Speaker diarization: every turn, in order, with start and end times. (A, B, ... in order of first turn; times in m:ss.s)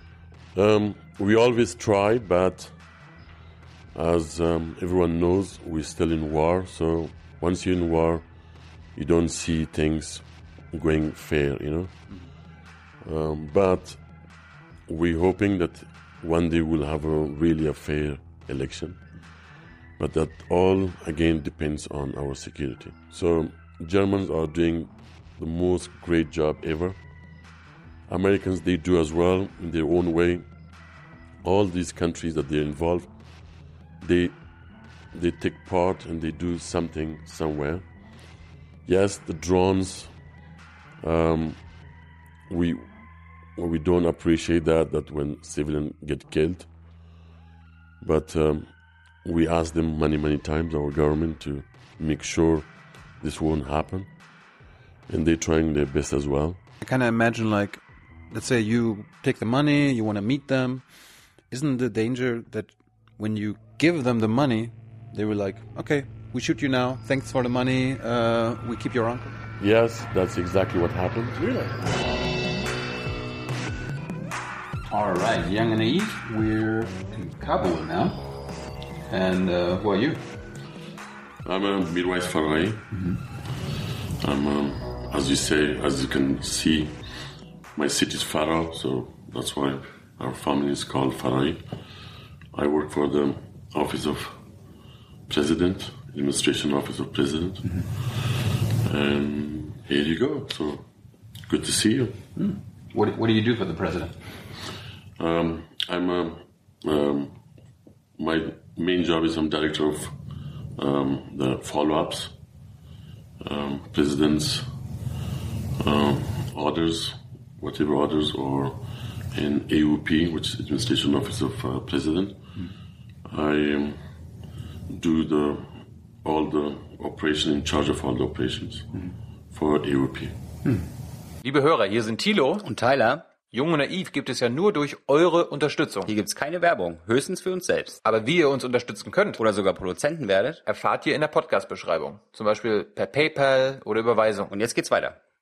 0:00.5-0:02.7 A
0:03.9-0:08.3 A
0:09.0-0:11.9 A
0:13.0-0:14.0 A
0:14.9-0:19.0 A
0:20.0-0:27.0 A
0:28.1-0:30.5 A
0:31.4-0:33.1 A
0:34.0-0:34.4 A
0:35.1-0:37.8 A
0:38.8-0:40.1 A
0:41.0-0:41.6 A
0:42.5-0:42.9 A
0:43.6-0:46.7 A
0:48.0-0:48.7 A
0:49.2-0:52.7 A
0:53.2-0:54.1 A
0:55.1-0:56.6 A
0:56.8-1:00.8 B
1:01.5-1:09.3 B
1:09.6-1:11.5 A
1:11.4-1:11.8 B
1:14.9-1:18.2 B
1:19.1-1:20.2 B
1:21.4-1:22.9 A
1:24.2-1:26.9 A
1:27.8-1:31.6 A
1:32.5-1:34.4 A
1:35.3-1:40.9 A
1:41.5-1:42.2 A
1:42.4-1:44.2 B
1:45.2-1:47.4 A
1:48.2-1:50.2 A
1:50.8-1:52.4 A
1:53.4-1:54.7 A
1:55.8-2:02.4 A
2:03.2-2:04.0 A
2:04.9-2:09.0 A
2:09.5-2:10.4 A
2:11.4-2:12.7 C
2:12.7-2:13.2 D
2:13.5-2:16.1 C
2:16.1-2:18.0 D
2:18.0-2:19.4 C
2:19.4-2:20.6 D
2:20.7-2:24.5 C
2:24.5-2:25.2 D